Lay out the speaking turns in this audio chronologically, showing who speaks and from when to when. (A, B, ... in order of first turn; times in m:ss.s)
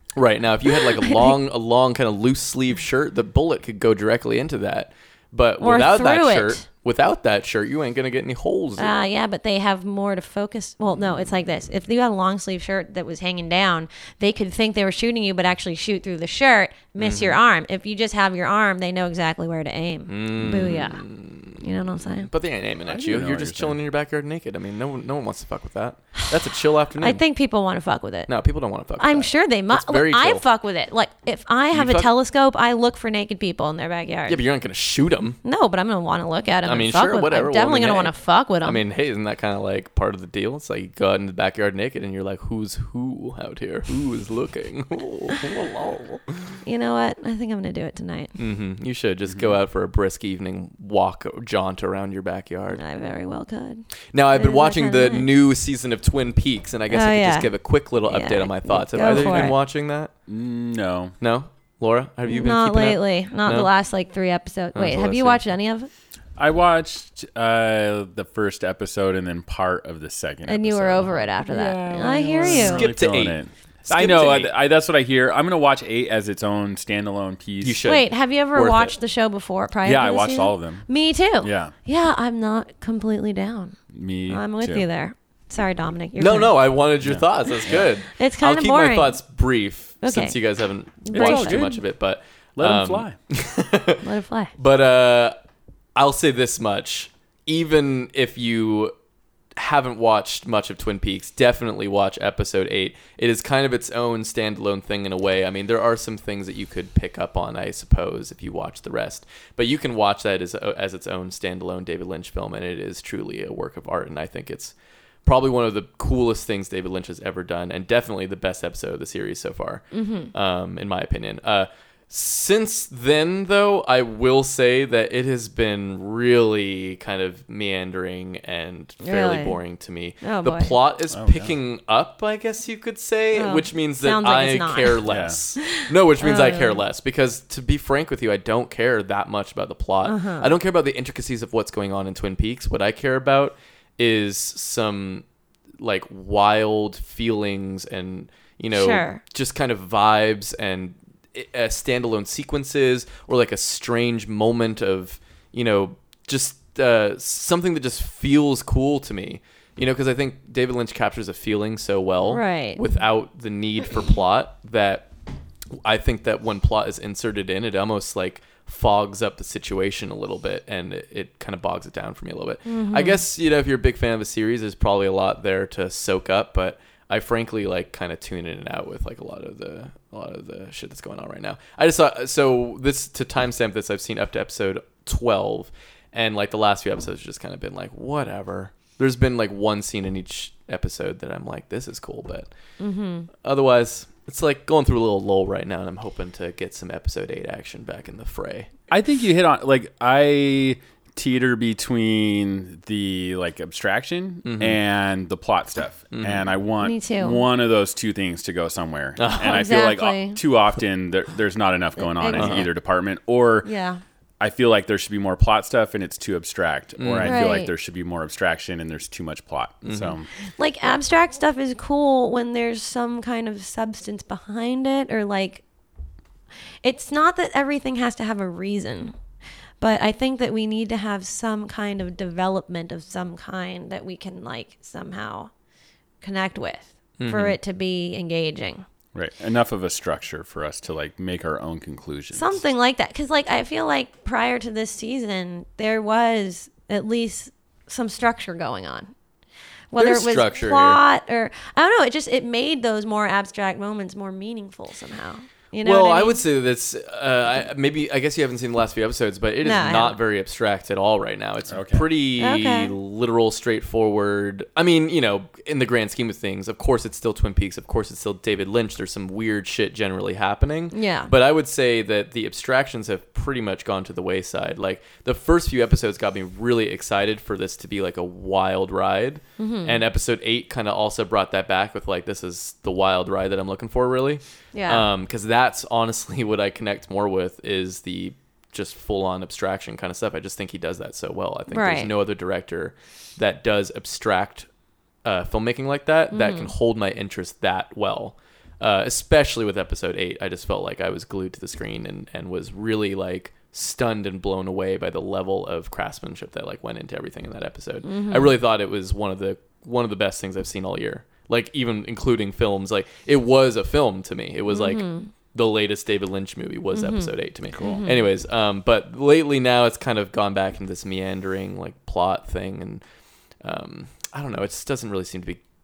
0:00.2-0:09.0 A
0:00.7-0:01.3 B
0:05.6-0:06.6 B
0:08.8-0:21.0 B
0:17.0-0:17.4 A
0:20.1-0:27.2 A
0:21.6-0:22.3 B
0:22.9-0:23.8 C
0:27.0-0:28.3 B
0:28.3-0:30.4 A
0:29.0-0:34.4 B
0:31.7-0:32.1 A
0:34.3-0:35.4 A
0:35.4-0:38.8 B
0:36.6-0:46.3 A
0:46.6-0:48.3 B
0:48.4-0:52.8 A
0:49.3-0:49.6 C
0:52.8-0:55.3 B
0:54.1-1:00.1 A
0:56.9-0:57.5 B
0:58.0-0:59.6 B
1:00.3-1:01.2 C
1:01.2-1:03.7 A
1:02.3-1:05.9 B
1:04.7-1:05.4 A
1:06.4-1:17.9 C
1:10.5-1:12.9 B
1:12.4-1:14.5 A
1:17.6-1:18.9 A
1:17.8-1:23.8 B
1:19.8-1:20.9 C
1:21.4-1:21.7 C
1:23.9-1:24.8 C
1:24.3-1:26.6 B
1:26.2-1:35.4 A
1:27.0-1:27.9 C
1:28.1-1:29.2 B
1:30.0-1:30.4 B
1:31.0-1:31.7 B
1:31.1-1:31.8 C
1:32.6-1:33.2 C
1:34.0-1:34.5 B
1:36.0-1:38.9 A
1:39.6-1:54.7 A
1:55.2-2:25.2 A
1:59.9-2:00.3 B
2:09.0-2:09.6 B
2:10.2-2:10.8 B
2:11.1-2:11.5 C
2:13.4-2:15.0 B
2:15.1-2:15.4 C
2:15.6-2:16.8 B
2:20.0-2:20.5 B
2:25.8-2:45.1 A
2:28.7-2:29.2 B
2:42.3-2:42.8 B
2:45.8-3:12.5 A
2:52.7-2:53.2 B
3:12.8-3:13.3 B
3:13.4-3:18.7 A
3:18.9-3:33.7 C
3:24.4-3:24.8 A
3:26.1-3:26.5 A
3:26.8-3:27.4 B
3:29.2-3:29.7 A
3:29.4-3:30.4 B
3:32.0-3:32.7 B
3:32.3-3:32.7 A
3:33.6-3:34.0 B
3:34.4-3:40.3 C
3:37.0-3:37.4 A
3:37.2-3:37.7 B
3:39.8-3:40.2 A
3:40.6-3:45.6 B
3:46.8-3:49.2 B
3:49.8-3:55.5 B
3:56.2-3:58.8 B
3:57.2-3:57.6 A
3:59.1-4:02.6 C
4:02.3-4:09.1 B
4:09.9-4:16.4 B
4:10.0-4:11.0 A
4:15.8-4:54.7 A
4:19.6-4:20.2 B
4:21.7-4:22.1 C
4:22.4-4:22.9 B
4:30.9-4:31.3 B
4:39.6-4:40.0 B
4:44.7-4:45.1 B
4:51.7-4:52.1 B
4:55.2-5:23.0 A
4:56.3-4:56.7 B
5:08.0-5:08.6 B
5:14.7-5:15.3 B
5:16.9-5:18.2 B
5:17.7-5:18.0 C
5:23.6-5:25.6 A